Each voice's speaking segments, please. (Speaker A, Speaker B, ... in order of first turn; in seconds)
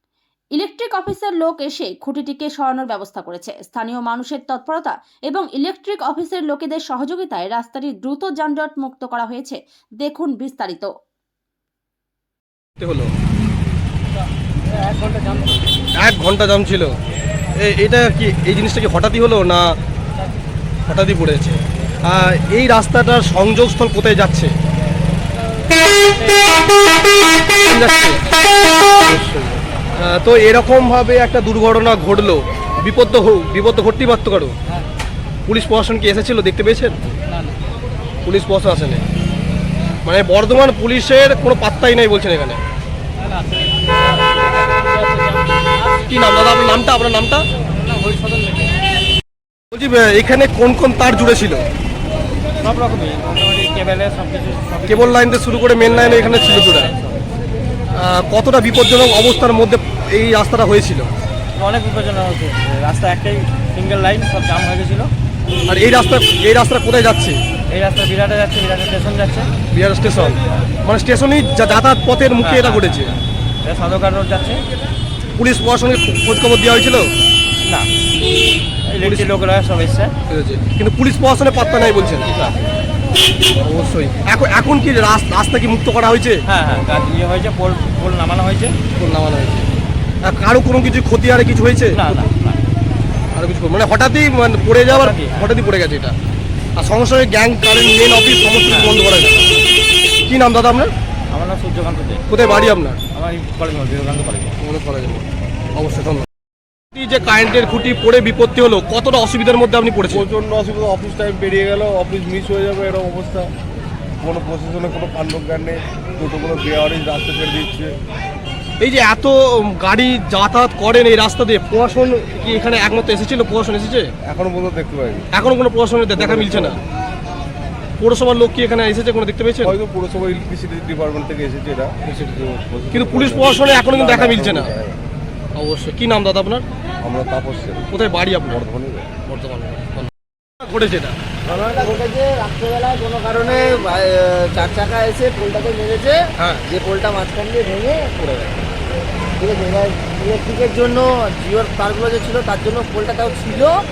Speaker A: 0.6-10.9
Speaker B: 12.8-13.1, 16.0-16.9, 17.6-19.7, 20.9-24.5, 27.6-28.2, 29.0-34.5, 35.5-37.0, 38.2-39.0, 40.0-42.6, 46.1-47.4, 49.7-51.6, 54.9-56.9, 58.0-61.1, 65.7-67.4, 69.7-73.1, 75.4-77.1, 79.0-79.3, 80.3-82.3, 83.6-86.4, 89.0-89.7, 90.2-92.0, 93.3-96.1, 96.8-99.5, 100.3-100.9, 102.3-103.0, 104.6-106.3, 107.0-110.3, 118.8-124.1, 125.3-126.8, 128.0-129.8, 132.1-132.4, 132.9-134.7, 135.6-136.6, 137.9-138.6, 139.2-140.1, 140.6-141.2
Speaker C: 52.6-55.2, 56.8-57.1, 61.6-65.1, 67.7-69.5, 72.4-73.0, 73.6-74.6, 78.9-80.1, 82.3-82.6, 86.5-88.8, 92.0-92.6, 94.9-95.5, 98.7-99.0, 101.3-102.2, 103.1-104.5
Speaker D: 110.1-113.5, 114.2-117.9, 124.2-125.3, 126.2-126.8, 129.6-135.0, 137.0-137.8, 138.5-139.2
Speaker E: 141.4-148.7, 149.4-153.7